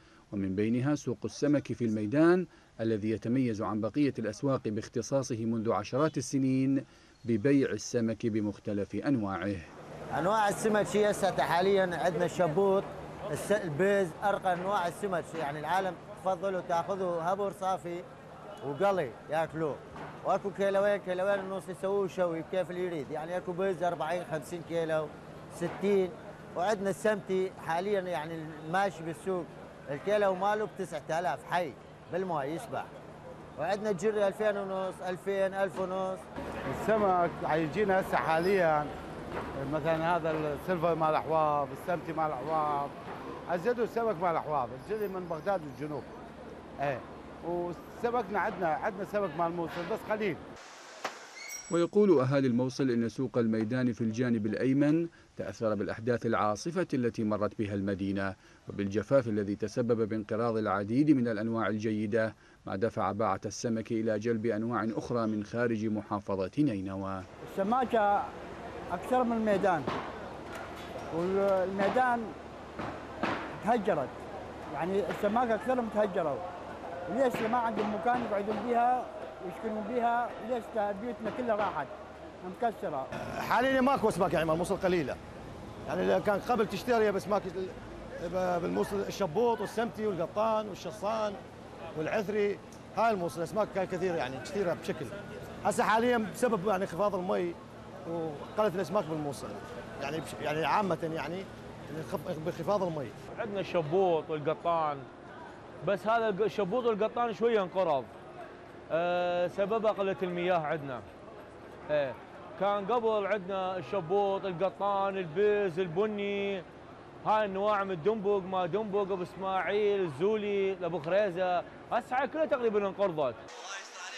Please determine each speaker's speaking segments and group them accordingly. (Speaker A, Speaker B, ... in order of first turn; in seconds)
Speaker A: 0.3-9.7, 51.7-67.2
Speaker B: 10.1-18.1, 18.6-32.9, 33.6-36.2
Speaker C: 36.7-38.9, 39.6-43.0, 43.5-46.1, 46.8-50.4
Speaker D: 67.5-68.3, 68.9-69.9, 71.1-72.3, 73.6-74.1, 74.7-76.5, 77.1-81.9, 82.4-83.1
Speaker E: 83.2-85.2, 85.9-91.4, 92.0-103.2
Speaker F: 103.3-105.1, 105.8-108.1, 108.9-111.1, 111.9-116.7, 117.2-123.4